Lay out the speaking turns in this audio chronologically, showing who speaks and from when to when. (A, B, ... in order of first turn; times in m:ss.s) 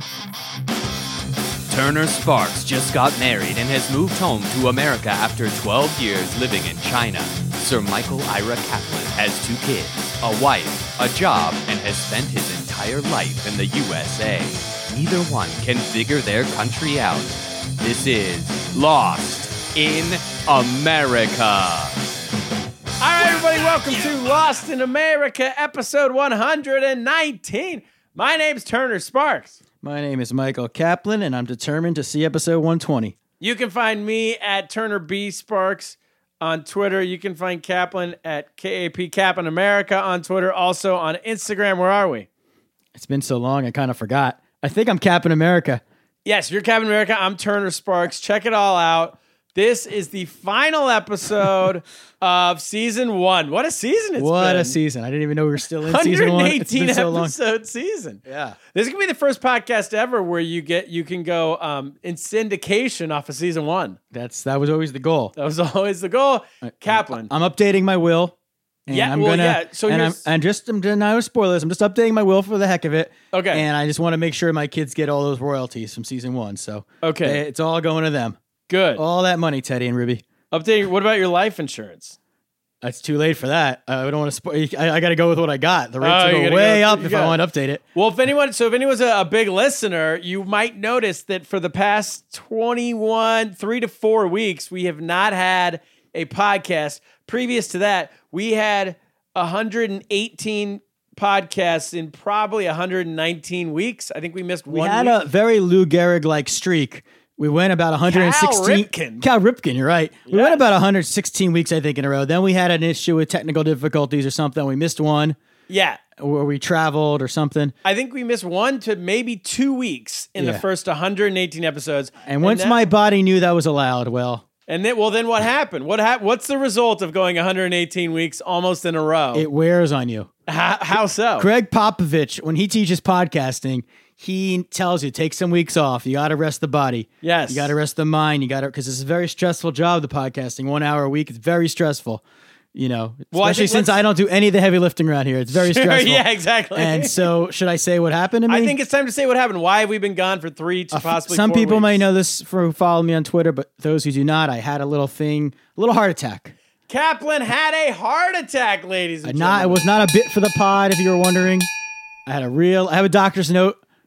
0:01.7-0:22.0 A
0:23.0-0:29.6 B
0:29.8-0:33.2 C
0:33.4-0:42.3 B
0:43.0-0:45.8 C
0:46.2-0:54.8 B
0:54.2-0:57.4 C
0:55.8-0:58.2 B
0:58.2-0:58.6 C
0:58.7-1:04.0 B
1:04.1-1:05.4 C
1:05.4-1:07.3 B
1:06.6-1:08.4 C
1:08.9-1:18.4 C
1:08.9-1:10.2 B
1:13.3-1:13.7 B
1:17.0-1:17.4 B
1:18.7-1:19.0 B
1:19.0-1:20.2 C
1:20.5-1:22.2 B
1:22.8-1:27.8 C
1:26.0-1:27.4 B
1:27.9-1:45.2 B
1:44.7-1:55.4 C
1:48.1-1:49.2 B
1:50.3-1:50.6 B
1:55.7-1:56.0 B
1:56.2-1:57.7 C
1:57.8-2:02.8 B
2:00.4-2:00.6 C
2:02.3-2:04.5 C
2:04.7-2:09.5 B
2:09.3-2:10.3 C
2:10.5-2:11.5 B
2:10.9-2:22.2 C
2:17.2-2:17.8 B
2:22.7-2:28.8 C
2:23.3-2:24.0 B
2:25.6-2:27.3 B
2:28.5-2:32.0 B
2:30.9-2:36.6 C
2:36.9-2:39.8 B
2:39.2-2:41.7 C
2:42.3-2:43.8 C